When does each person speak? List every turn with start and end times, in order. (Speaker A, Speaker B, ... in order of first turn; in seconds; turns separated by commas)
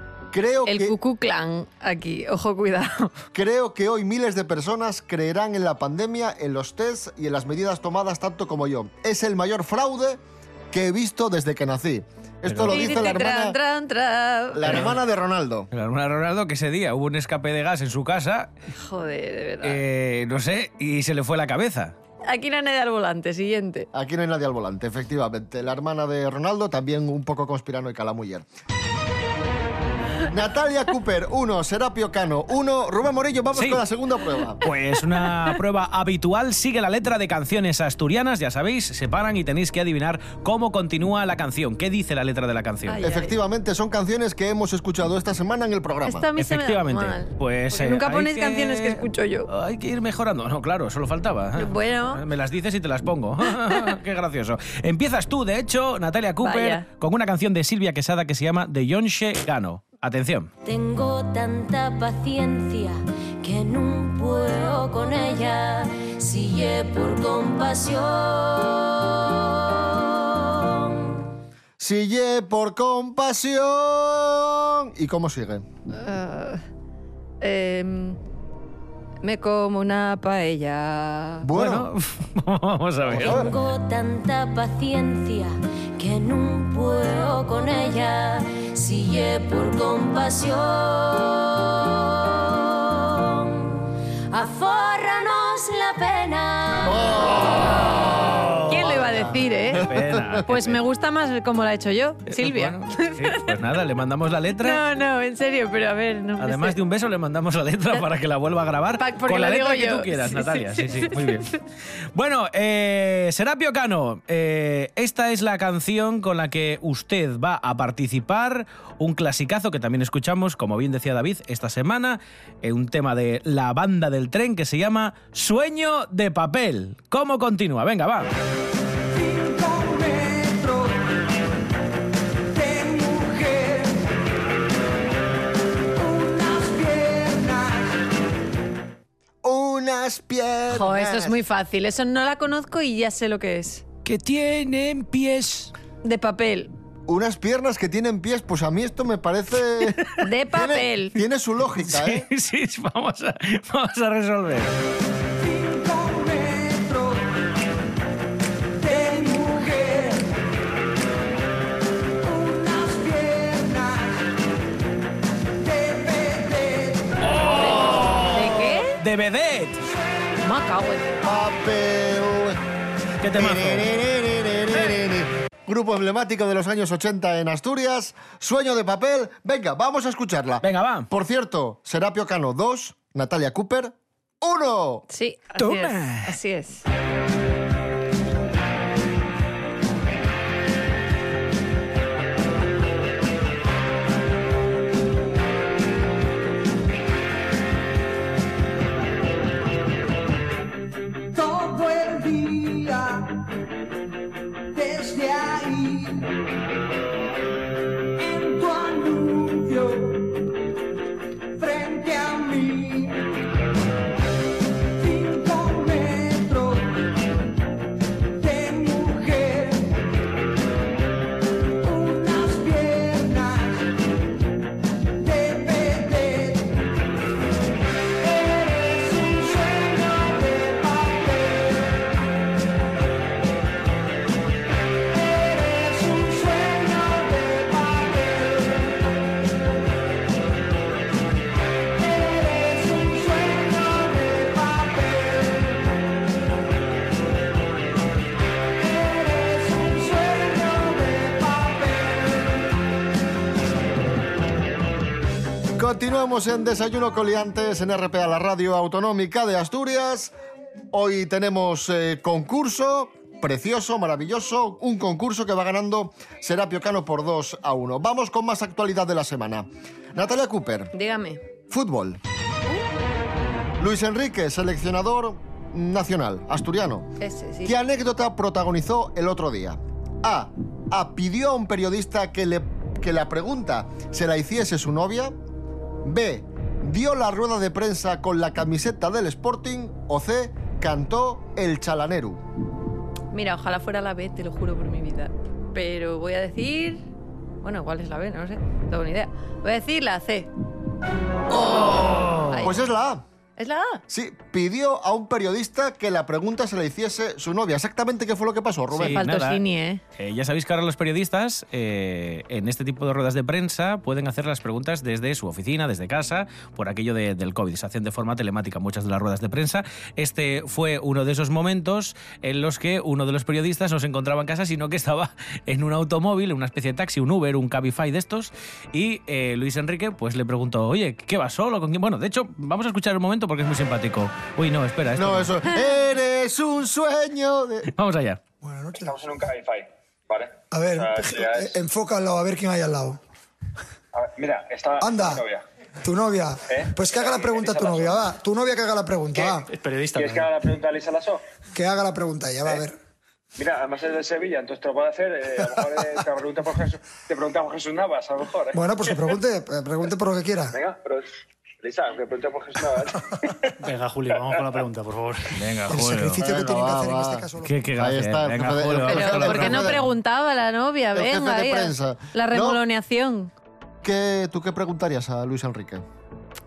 Speaker A: 0.3-1.0, Speaker B: 0.7-3.1, Speaker A: 3.3-13.6, Speaker C: 12.5-12.8, Speaker B: 12.7-14.8, Speaker A: 14.5-15.7, Speaker C: 15.7-18.5, Speaker B: 18.7-19.8, Speaker C: 19.6-21.9, Speaker B: 22.2-23.9, Speaker A: 23.9-28.4, Speaker A: 30.3-34.6, Speaker C: 33.5-33.8, Speaker C: 34.6-43.0, Speaker B: 42.9-43.3, Speaker A: 43.0-46.3, Speaker B: 46.0-49.5, Speaker C: 46.4-60.5, Speaker B: 51.6-52.2, Speaker B: 56.4-56.8, Speaker D: 60.6-71.2, Speaker A: 71.8-75.6, Speaker B: 75.9-76.6, Speaker B: 77.4-78.2, Speaker B: 79.2-81.5, Speaker A: 81.4-81.9, Speaker C: 81.5-83.4, Speaker A: 83.0-83.5, Speaker D: 83.2-97.2, Speaker A: 96.8-100.4, Speaker B: 97.7-98.1, Speaker C: 98.4-98.9, Speaker B: 98.7-99.9, Speaker C: 99.8-100.8, Speaker B: 100.4-103.5, Speaker C: 102.3-104.8, Speaker B: 104.6-106.8, Speaker C: 106.4-111.6, Speaker B: 109.0-111.3, Speaker C: 112.1-128.3, Speaker E: 129.1-131.1, Speaker E: 132.5-134.0, Speaker E: 135.9-137.9, Speaker A: 139.4-141.4, Speaker B: 140.7-143.8, Speaker F: 144.0-145.7, Speaker B: 146.0-146.7, Speaker A: 147.1-152.3, Speaker B: 150.2-151.2, Speaker C: 151.8-154.7, Speaker E: 155.3-157.3, Speaker E: 158.8-160.2, Speaker E: 162.2-164.3, Speaker E: 165.6-167.1, Speaker C: 167.3-169.8, Speaker B: 167.5-169.0, Speaker B: 170.4-171.2, Speaker A: 171.2-172.6, Speaker C: 173.2-173.8, Speaker A: 173.3-185.1, Speaker C: 180.6-181.1, Speaker B: 185.1-186.8, Speaker F: 185.6-186.3, Speaker E: 201.3-203.3, Speaker E: 204.7-206.3, Speaker E: 208.2-210.3, Speaker E: 211.6-213.2, Speaker E: 214.9-217.1, Speaker E: 218.4-219.9, Speaker E: 221.8-223.9, Speaker E: 225.2-226.7, Speaker E: 228.2-232.0, Speaker E: 235.1-238.9, Speaker E: 242.0-245.8, Speaker E: 248.8-252.6, Speaker A: 255.8-260.3, Speaker A: 260.9-270.9, Speaker B: 270.9-271.4, Speaker A: 271.7-272.2, Speaker A: 273.8-277.1, Speaker B: 277.2-277.7, Speaker A: 277.6-285.3, Speaker A: 286.0-292.4, Speaker B: 293.3-297.1, Speaker B: 297.6-300.5, Speaker A: 301.5-303.2, Speaker B: 302.5-302.8, Speaker B: 303.6-304.0, Speaker A: 304.1-309.2, Speaker C: 308.9-309.6, Speaker B: 309.1-310.0, Speaker C: 310.2-335.6, Speaker A: 335.1-337.9, Speaker C: 337.9-338.4, Speaker G: 338.6-339.1, Speaker H: 339.0-341.8, Speaker G: 340.7-343.2, Speaker H: 344.1-345.6, Speaker G: 345.0-345.4, Speaker G: 346.0-349.7, Speaker H: 346.7-348.2, Speaker I: 349.5-350.6, Speaker H: 350.1-351.4, Speaker G: 351.7-352.9, Speaker H: 353.6-358.8, Speaker G: 358.7-360.7, Speaker H: 360.7-361.3, Speaker H: 361.8-363.7, Speaker I: 363.8-366.0, Speaker C: 365.5-366.4, Speaker G: 365.9-367.7, Speaker A: 366.4-370.0, Speaker C: 367.6-370.0, Speaker B: 369.1-373.5, Speaker A: 371.1-372.8, Speaker A: 374.0-376.0